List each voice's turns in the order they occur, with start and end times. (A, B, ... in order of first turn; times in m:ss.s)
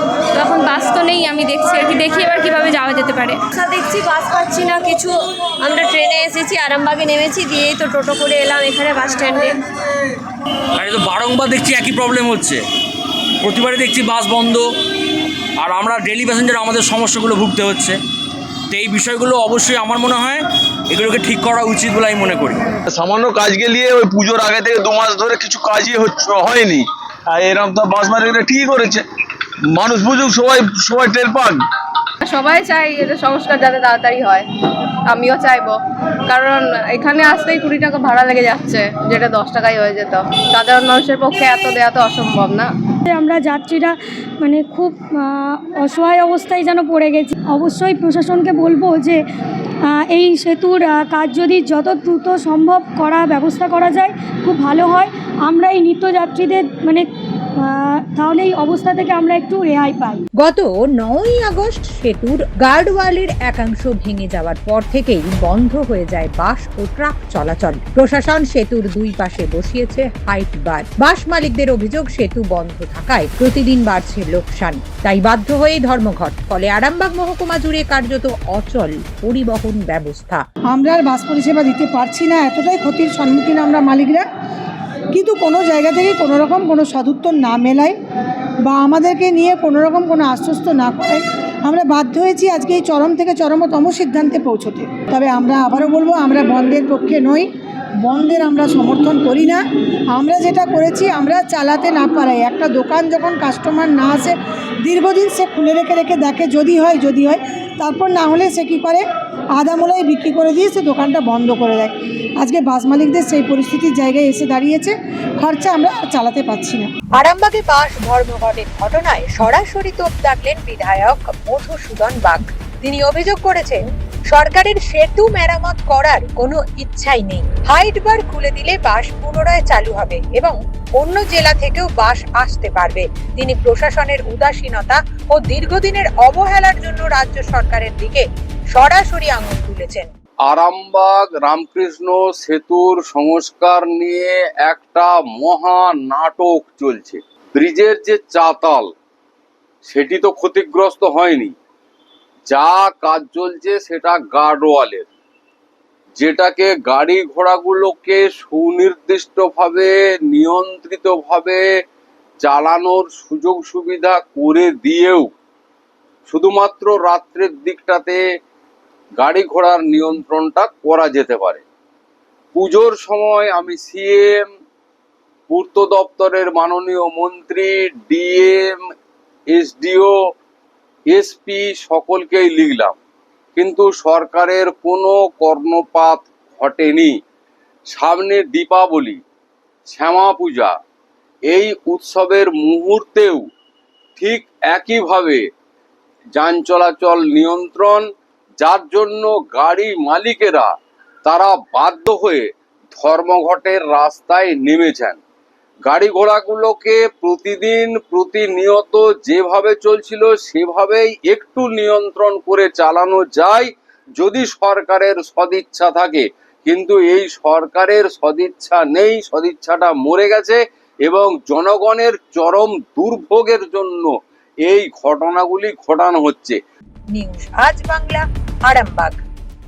0:00.3-0:03.4 A
0:03.5-0:09.6 B
0:10.8-0:12.6 C
0:13.4-0:14.7 C
0:15.6-0:18.0 C
0:18.7-0:22.6 C
0:22.9-0:29.0 D
0:29.7-0:31.6 D
0:32.2-0:34.4 E
0:35.1-0:35.8 E
0:36.3-0:42.7 E
0:43.1-0:49.2 F
0:50.0-0:57.1 F
0:58.1-1:00.2 F
1:00.4-1:20.4 G
1:20.7-1:24.2 H
1:25.1-1:28.0 H
1:28.6-1:37.5 H
1:38.0-1:49.0 H
1:49.6-1:56.9 H
1:57.2-2:20.1 G
2:20.5-2:28.9 I
2:29.8-2:31.6 I
2:32.5-2:35.1 I
2:36.2-2:41.7 I
2:42.4-2:45.3 I
2:46.3-2:48.2 I
2:49.2-2:51.6 I
2:52.5-2:54.5 I
2:55.5-2:58.8 I
2:59.5-3:00.1 I
3:01.1-3:03.0 I
3:03.6-3:07.2 I
3:07.9-3:09.2 I
3:09.9-3:10.7 I
3:11.5-3:13.4 I
3:14.2-3:15.4 I
3:16.4-3:18.1 I
3:18.6-3:20.7 I
3:21.2-3:25.2 I
3:25.9-3:44.1 I
3:44.6-3:46.6 I
3:47.1-3:49.2 G